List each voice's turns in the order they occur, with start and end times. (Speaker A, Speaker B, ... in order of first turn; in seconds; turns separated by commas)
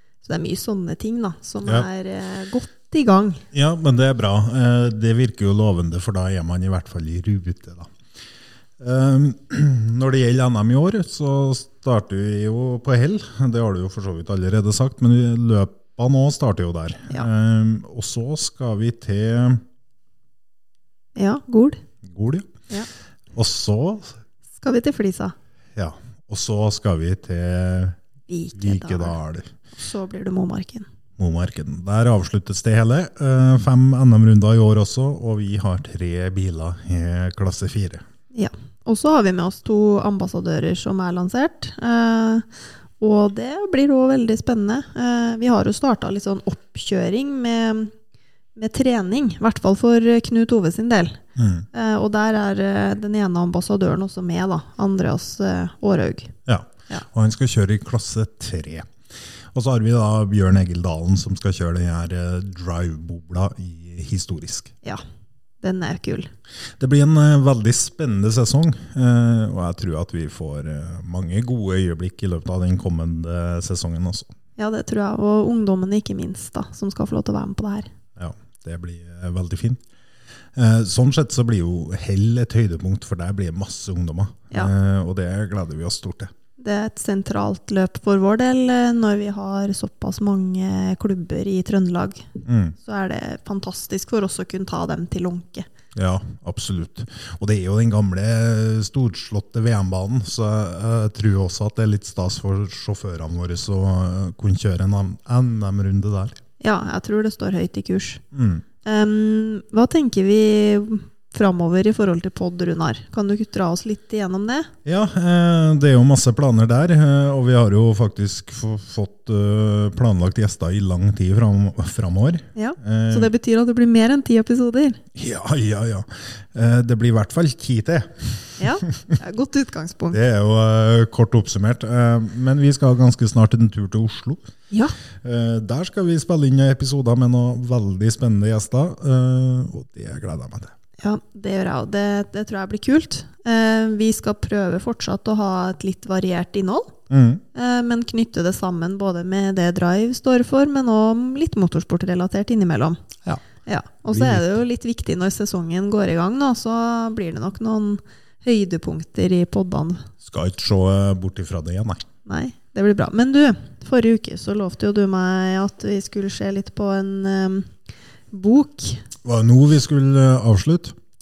Speaker A: 0.2-3.4, Speaker B: 3.5-7.9, Speaker B: 8.8-19.6, Speaker A: 21.2-21.8, Speaker B: 22.1-22.5, Speaker B: 23.4-24.1, Speaker A: 24.6-25.4, Speaker B: 25.8-28.0, Speaker A: 28.3-29.2, Speaker B: 28.6-29.5, Speaker A: 29.8-30.9, Speaker B: 31.2-38.0, Speaker A: 38.3-42.5, Speaker A: 43.0-47.9, Speaker A: 48.6-51.2, Speaker B: 51.4-51.7, Speaker A: 51.7-56.3, Speaker B: 56.5-58.9, Speaker B: 59.5-64.7, Speaker A: 65.6-66.3, Speaker B: 66.8-74.3, Speaker A: 74.6-77.9, Speaker B: 78.2-79.8, Speaker B: 80.6-86.3, Speaker A: 86.6-92.2, Speaker B: 92.5-92.8, Speaker A: 92.8-95.7, Speaker B: 96.0-106.4, Speaker A: 106.6-108.2, Speaker B: 108.3-108.6, Speaker A: 108.8-114.7, Speaker B: 114.8-123.3, Speaker A: 122.5-125.0, Speaker B: 125.2-128.7, Speaker A: 128.6-130.2, Speaker B: 130.1-134.4, Speaker B: 135.2-140.7, Speaker A: 141.0-146.9, Speaker B: 147.1-147.4, Speaker A: 147.6-153.0, Speaker A: 153.7-160.0, Speaker B: 154.1-154.5, Speaker B: 160.2-162.0, Speaker A: 162.3-167.7, Speaker A: 168.3-169.0, Speaker B: 169.2-170.9